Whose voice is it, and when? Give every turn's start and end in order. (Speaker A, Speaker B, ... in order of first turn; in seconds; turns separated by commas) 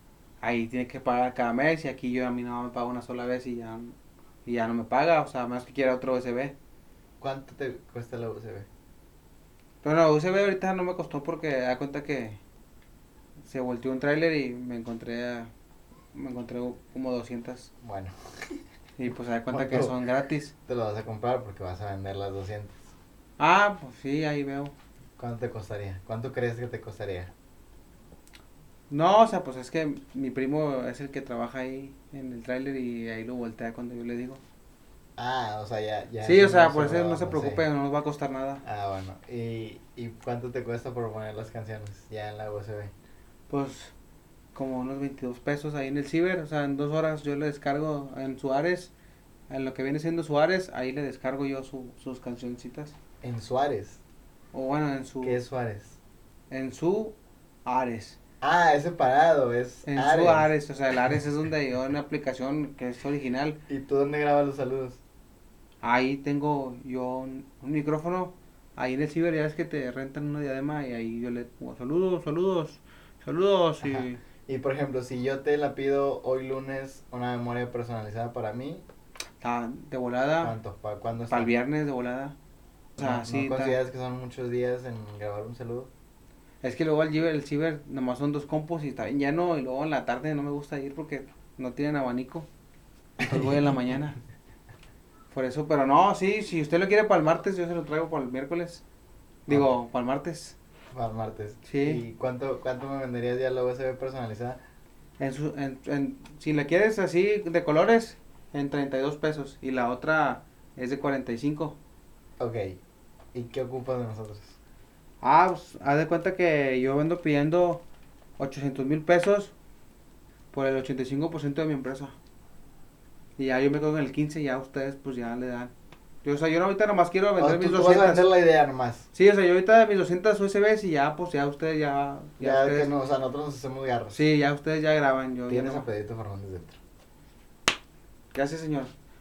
Speaker A: 0.4-6.5, Speaker B: 7.2-8.7, Speaker A: 9.8-12.4, Speaker A: 13.4-15.5, Speaker A: 16.1-17.7, Speaker B: 17.8-18.6, Speaker A: 19.0-20.5, Speaker B: 19.5-20.0, Speaker B: 20.7-22.9, Speaker A: 23.4-24.7, Speaker B: 25.2-27.3, Speaker A: 28.9-34.4, Speaker B: 35.2-37.6, Speaker A: 36.2-38.6, Speaker B: 38.6-42.9, Speaker A: 43.5-43.9, Speaker A: 44.5-48.9, Speaker A: 49.5-53.0, Speaker B: 53.2-54.0, Speaker A: 54.5-55.4, Speaker B: 55.2-56.0, Speaker A: 56.5-58.2, Speaker B: 58.4-60.5, Speaker A: 59.9-63.6, Speaker B: 63.7-65.0, Speaker A: 65.8-74.2, Speaker B: 73.8-78.8, Speaker A: 79.4-80.6, Speaker B: 80.4-81.5, Speaker A: 81.3-82.3, Speaker A: 83.0-83.8, Speaker B: 83.0-85.9, Speaker A: 86.6-92.5, Speaker A: 93.2-94.2, Speaker B: 93.2-93.6, Speaker A: 95.3-98.8, Speaker A: 99.5-100.6, Speaker B: 99.5-99.7, Speaker B: 100.9-104.6, Speaker A: 101.7-102.0, Speaker A: 105.2-111.8, Speaker B: 112.4-112.8, Speaker B: 113.3-114.6, Speaker A: 115.2-117.8, Speaker A: 118.4-119.5, Speaker A: 120.5-122.1, Speaker A: 123.4-125.7, Speaker A: 126.2-128.3, Speaker B: 127.4-129.1, Speaker A: 129.1-132.9, Speaker B: 132.4-134.2, Speaker A: 134.1-135.9, Speaker B: 135.5-136.8, Speaker A: 138.3-138.9